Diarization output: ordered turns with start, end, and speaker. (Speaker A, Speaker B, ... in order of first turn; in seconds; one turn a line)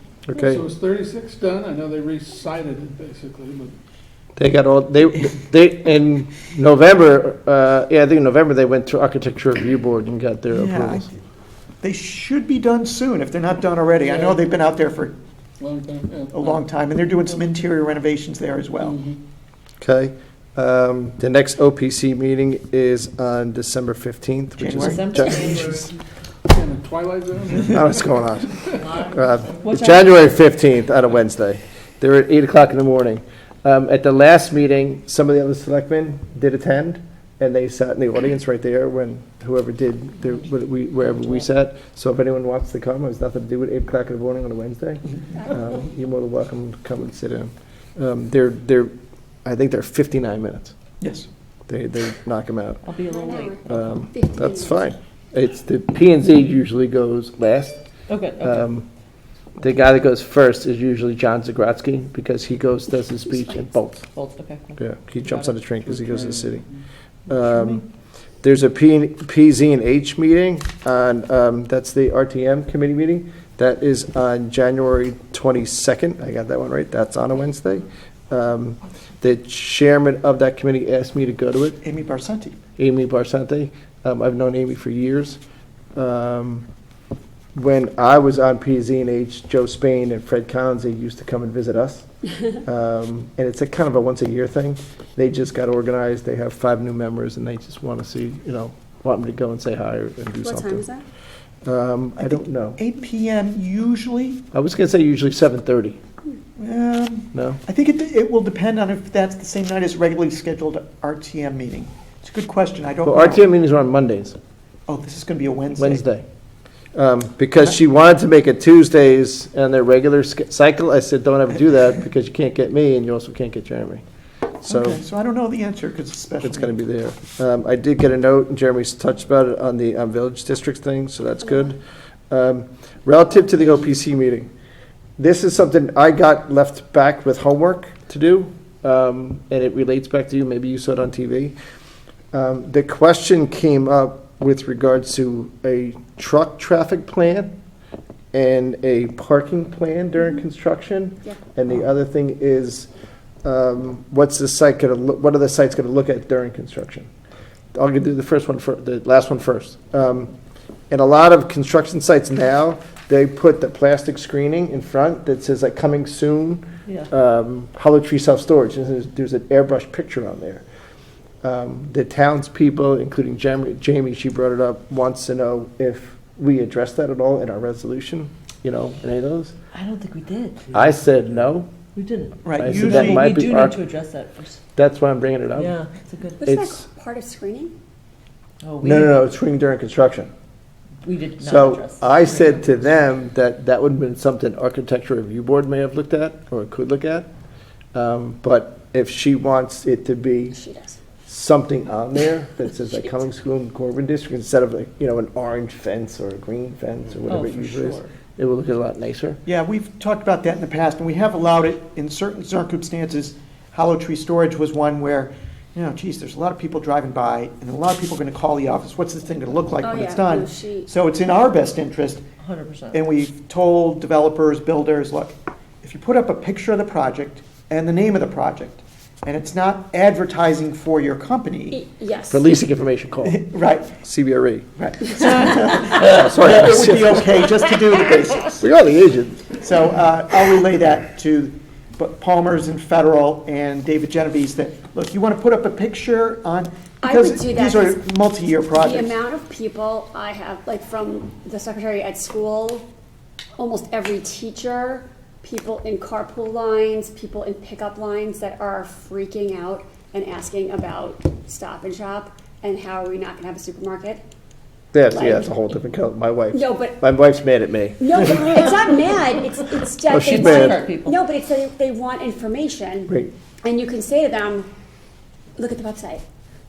Speaker A: 0.3-0.7
Speaker B: 0.4-3.7
Speaker A: 4.4-11.1
Speaker C: 10.5-11.1
Speaker C: 11.8-15.2
Speaker B: 14.0-14.4
Speaker B: 15.6-16.7
Speaker C: 16.3-19.0
Speaker B: 18.8-19.2
Speaker A: 19.8-25.9
Speaker C: 24.6-25.3
Speaker D: 24.8-25.9
Speaker B: 26.5-28.1
Speaker A: 27.6-48.9
Speaker D: 29.6-30.1
Speaker A: 49.4-50.7
Speaker C: 51.0-51.3
Speaker A: 51.7-52.8
Speaker D: 52.8-54.0
Speaker E: 53.1-53.6
Speaker A: 53.7-57.8
Speaker E: 54.1-54.9
Speaker D: 58.1-58.6
Speaker A: 58.4-58.9
Speaker A: 59.6-64.0
Speaker E: 63.4-63.7
Speaker D: 64.1-65.5
Speaker A: 64.8-66.6
Speaker B: 65.8-66.8
Speaker A: 67.3-67.8
Speaker C: 67.3-67.8
Speaker A: 68.4-81.8
Speaker C: 81.8-82.6
Speaker A: 82.8-85.4
Speaker A: 85.9-86.7
Speaker A: 87.5-92.0
Speaker A: 92.6-100.8
Speaker E: 100.4-101.0
Speaker A: 101.6-102.8
Speaker C: 102.2-104.4
Speaker A: 104.5-106.0
Speaker C: 106.6-113.4
Speaker A: 107.3-107.6
Speaker A: 113.0-114.4
Speaker C: 114.9-116.0
Speaker A: 115.8-116.2
Speaker A: 116.9-124.0
Speaker A: 124.6-125.0
Speaker C: 124.6-126.7
Speaker A: 126.4-131.8
Speaker A: 132.3-134.5
Speaker A: 135.2-141.5
Speaker A: 142.3-147.6
Speaker A: 148.3-152.9
Speaker A: 153.4-157.1
Speaker A: 157.7-160.3
Speaker A: 160.9-170.6
Speaker A: 171.4-179.5
Speaker D: 179.7-180.7
Speaker A: 180.7-181.7
Speaker D: 181.9-184.6
Speaker C: 182.4-183.3
Speaker A: 182.6-183.8
Speaker A: 184.8-185.7
Speaker D: 185.6-186.4
Speaker E: 186.4-187.7
Speaker A: 186.4-186.8
Speaker D: 188.6-189.2
Speaker A: 188.8-190.3
Speaker D: 191.0-192.4
Speaker A: 191.4-197.3
Speaker A: 197.9-200.6
Speaker E: 200.5-201.0
Speaker A: 201.2-209.4
Speaker D: 207.3-208.1
Speaker C: 209.4-222.2
Speaker E: 219.8-220.9
Speaker D: 222.4-223.0
Speaker C: 222.9-231.8
Speaker E: 231.7-232.5
Speaker A: 232.3-233.4
Speaker C: 233.2-233.9
Speaker A: 234.0-234.7
Speaker C: 234.8-238.7
Speaker A: 235.4-237.2
Speaker A: 238.6-239.6
Speaker C: 239.6-249.1
Speaker E: 247.0-248.0
Speaker E: 248.8-252.8
Speaker E: 253.6-264.2
Speaker A: 264.9-268.5
Speaker E: 265.1-265.5
Speaker E: 266.5-267.0
Speaker E: 268.0-273.1
Speaker A: 270.1-270.8
Speaker D: 270.1-271.2
Speaker E: 273.6-274.7
Speaker E: 275.6-276.2